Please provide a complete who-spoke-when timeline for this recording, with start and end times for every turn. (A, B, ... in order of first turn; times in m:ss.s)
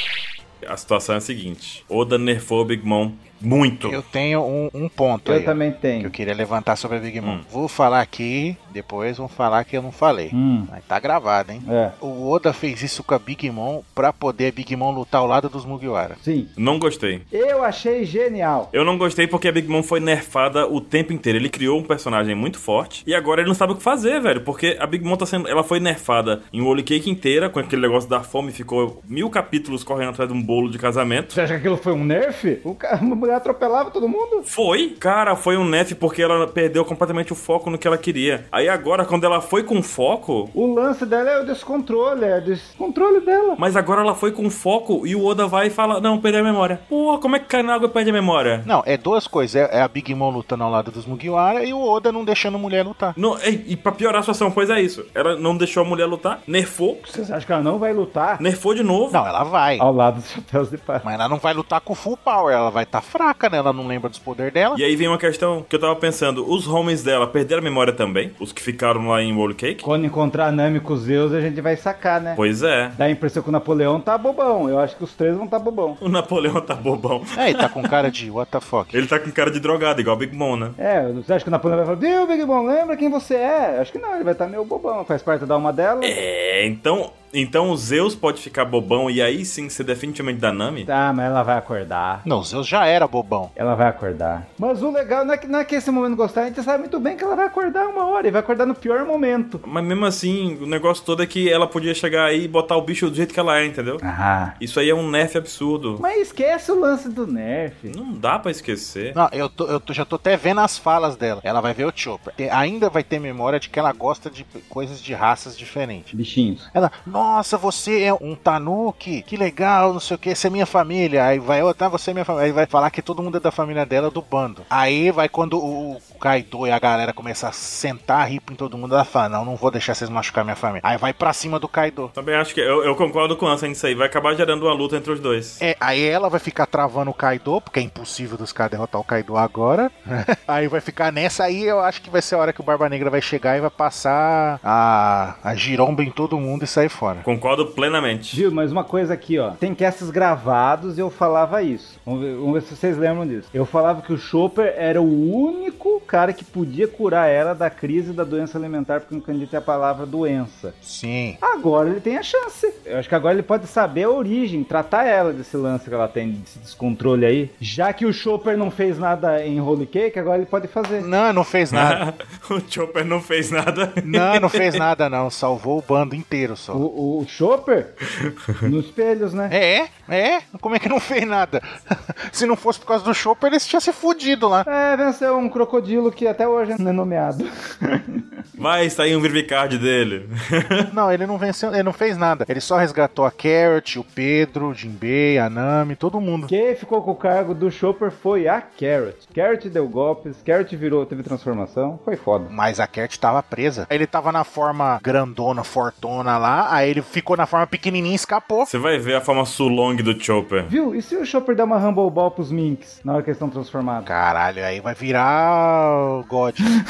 0:00.6-0:04.0 A
0:03.8-0:16.2 B
0:05.2-0:06.1 C
0:10.3-0:10.7 C
0:11.6-0:11.9 C
0:16.2-0:16.5 C
0:16.6-0:17.2 A
0:17.3-0:18.7 C
0:18.7-0:31.4 A
0:31.3-0:34.5 C
0:34.5-0:40.5 A
0:40.5-0:43.6 C
0:43.6-0:48.7 A
0:48.6-0:53.2 B
0:53.2-0:57.0 A
0:57.0-0:58.4 C
0:58.4-0:59.2 A
0:59.1-0:59.8 B
0:59.8-1:01.0 C
1:01.0-1:04.8 B
1:04.7-1:09.8 A
1:09.8-1:12.4 C
1:12.4-1:13.0 A
1:13.0-1:16.0 C
1:16.0-1:17.9 A
1:17.3-1:19.0 B
1:18.9-1:20.8 A
1:20.8-1:26.2 C
1:26.0-1:30.9 A
1:30.8-1:32.2 C
1:32.2-1:33.5 B
1:33.6-1:39.6 C
1:39.6-1:44.0 A
1:44.0-1:44.6 C
1:44.6-1:46.0 A
1:46.0-1:48.0 C
1:47.9-1:49.2 A
1:49.1-1:56.1 B
1:56.1-1:56.7 C
1:56.7-2:12.1 B
2:12.1-2:15.6 A
2:15.6-2:27.2 B
2:27.2-2:28.4 A
2:28.3-2:40.8 C
2:40.8-2:41.4 B
2:41.4-2:51.1 C
2:51.0-2:52.0 B
2:51.7-2:54.8 A
2:54.0-2:56.8 B
2:56.7-2:57.9 C
2:58.2-2:58.5 A
2:58.6-2:59.5 C
2:59.5-3:04.7 B
3:04.6-3:08.4 C
3:08.6-3:10.9 A
3:10.9-3:16.5 B
3:16.5-3:22.5 C
3:22.5-3:28.7 B
3:28.6-3:30.7 A
3:30.7-3:34.1 C
3:34.0-3:36.8 B